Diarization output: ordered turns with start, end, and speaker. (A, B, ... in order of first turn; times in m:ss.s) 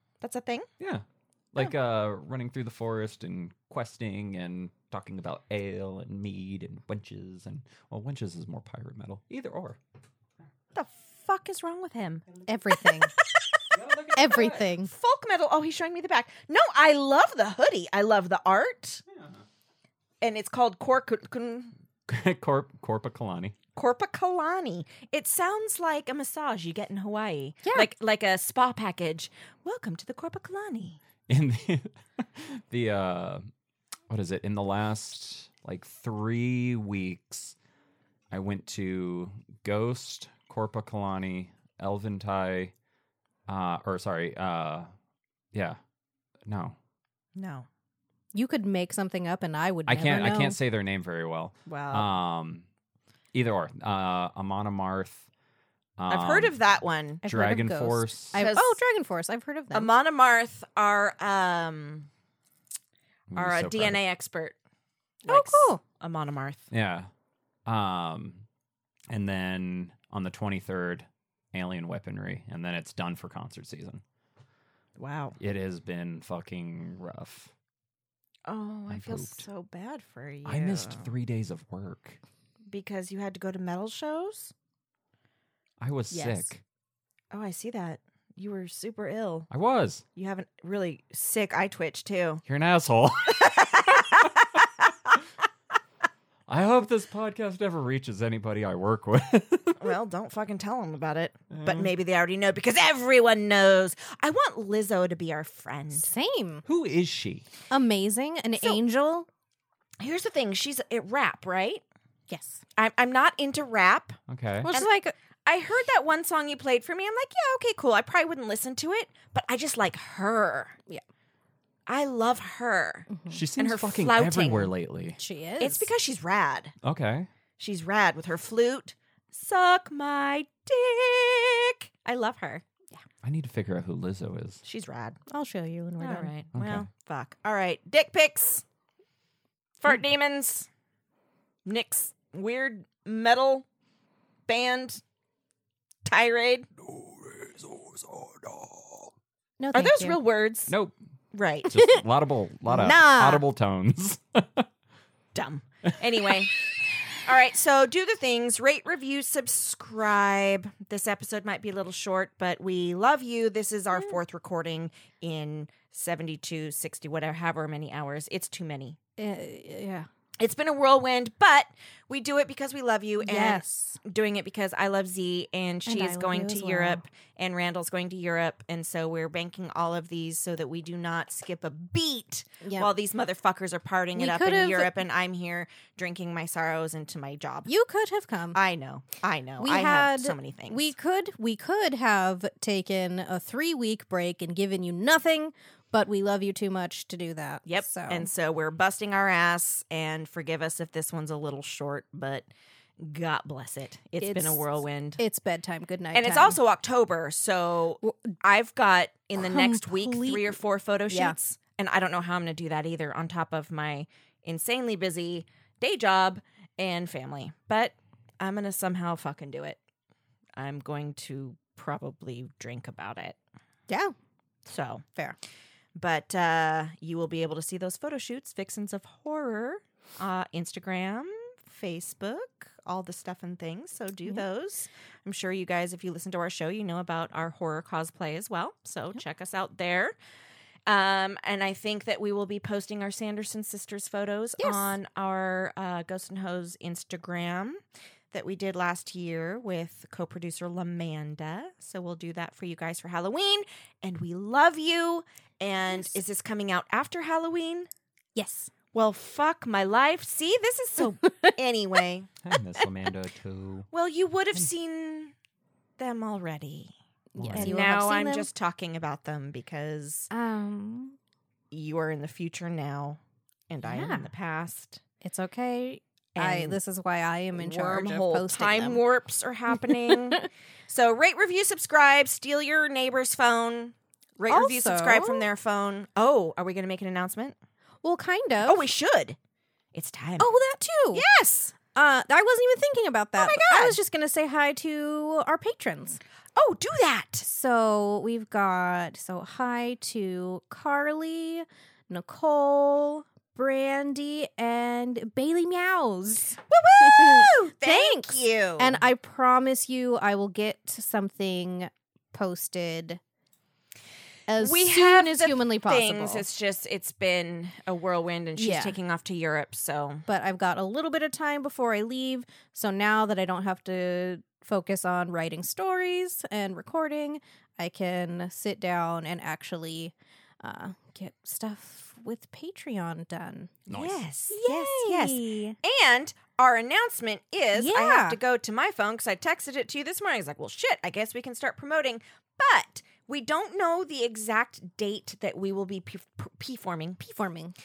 0:00.2-0:00.7 A
0:00.8-0:09.8 B
0:10.7-0:12.2 A
0:12.5-0:13.1 C
0:13.7-0:14.7 B
0:14.2-0:14.9 C
0:14.8-0:19.0 A
0:19.1-0:19.4 B
0:20.2-0:21.7 A
0:22.1-0:23.6 B
0:23.8-0:31.0 A
0:31.3-0:33.4 B
0:34.1-0:37.6 B
0:38.3-0:42.7 B
0:43.5-0:44.9 B
0:45.5-0:45.8 B
0:46.4-0:46.8 B
0:47.4-0:47.7 A
0:48.3-0:50.6 C
0:49.9-0:52.6 B
0:51.6-0:52.1 A
0:53.3-0:55.3 B
0:56.0-0:56.6 B
0:56.1-0:57.2 A
0:57.2-0:59.9 C
0:57.2-0:58.4 B
0:58.3-0:58.8 A
0:59.7-1:02.1 A
1:03.3-1:04.0 B
1:03.4-1:04.5 A
1:05.2-1:06.6 A
1:05.3-1:05.8 C
1:06.7-1:07.1 B
1:07.6-1:08.4 B
1:09.1-1:14.0 B
1:15.0-1:15.4 A
1:15.4-1:17.5 B
1:18.4-1:21.1 A
1:18.9-1:19.4 B
1:20.4-1:22.2 B
1:22.7-1:24.5 A
1:25.8-1:26.6 B
1:26.1-1:26.5 C
1:27.3-1:29.5 A
1:29.5-1:30.0 B
1:30.1-1:32.4 A
1:32.4-1:33.6 B
1:33.3-1:34.5 A
1:36.5-1:39.9 B
1:39.8-1:46.1 A
1:41.5-1:41.9 B
1:46.0-1:46.6 C
1:46.6-1:47.4 B
1:47.7-1:49.3 C
1:50.0-1:51.8 A
1:52.3-1:52.6 C
1:52.8-1:54.2 A
1:54.3-1:54.7 B
1:54.7-1:55.1 C
1:55.4-2:00.8 A
2:01.9-2:04.7 A
2:03.1-2:03.4 C
2:03.3-2:05.2 B
2:05.2-2:05.9 C
2:05.6-2:06.7 A
2:06.8-2:07.3 B
2:07.6-2:12.6 A
2:13.2-2:14.6 B
2:14.6-2:15.2 A
2:15.3-2:16.3 C
2:16.0-2:18.6 A
2:16.5-2:16.9 B
2:19.8-2:20.7 A
2:21.6-2:23.6 A
2:24.5-2:25.0 A
2:26.0-2:26.7 A
2:26.9-2:29.0 B
2:29.6-2:30.2 C
2:29.7-2:30.7 A
2:30.7-2:30.9 B
2:31.3-2:31.7 A
2:31.6-2:34.6 B
2:31.7-2:32.0 C
2:32.6-2:33.4 C
2:35.3-2:36.6 A
2:37.2-2:49.0 A
2:43.9-2:44.2 C
2:49.2-2:50.1 C
2:50.4-3:07.7 A
2:53.2-2:54.0 C
2:55.8-2:57.0 C
3:02.6-3:02.9 C
3:04.2-3:05.0 C
3:07.7-3:08.6 C
3:08.5-3:10.9 A
3:09.6-3:18.3 C
3:17.6-3:22.5 A
3:23.0-3:25.2 A
3:24.2-3:24.6 C
3:25.2-3:26.6 C
3:26.1-3:39.8 A
3:29.4-3:30.6 C
3:31.1-3:31.3 C
3:40.6-3:43.4 A
3:43.9-3:44.1 C
3:44.6-3:45.0 A
3:46.0-4:00.1 A
4:00.8-4:07.8 A
4:04.6-4:04.9 C
4:08.3-4:17.9 A
4:18.3-4:18.7 C
4:18.9-4:22.3 A
4:22.4-4:23.9 B
4:23.9-4:25.3 A
4:26.0-4:26.9 A
4:27.3-4:28.5 C
4:27.4-4:27.8 B
4:27.5-4:30.3 A
4:30.3-4:31.2 C
4:31.7-4:33.2 A
4:33.7-4:35.0 A
4:33.8-4:34.3 C
4:35.2-4:39.0 C
4:36.3-4:36.8 A
4:37.5-4:47.5 A
4:39.9-4:40.4 C
4:44.5-4:45.5 C
4:48.0-4:48.8 C
4:48.6-4:49.4 A
4:49.9-4:50.5 A
4:50.4-4:51.2 C
4:51.1-4:51.7 A
4:51.9-4:56.2 C
4:53.4-4:54.0 A
4:56.6-4:57.4 A
4:57.4-5:13.2 C
5:06.7-5:09.0 A
5:14.5-5:16.4 C
5:14.6-5:20.2 A
5:18.6-5:19.0 C
5:20.3-5:33.7 C
5:33.9-5:34.2 B
5:33.9-5:47.4 A
5:34.5-5:35.8 C
5:37.7-5:38.4 C
5:47.4-5:47.7 C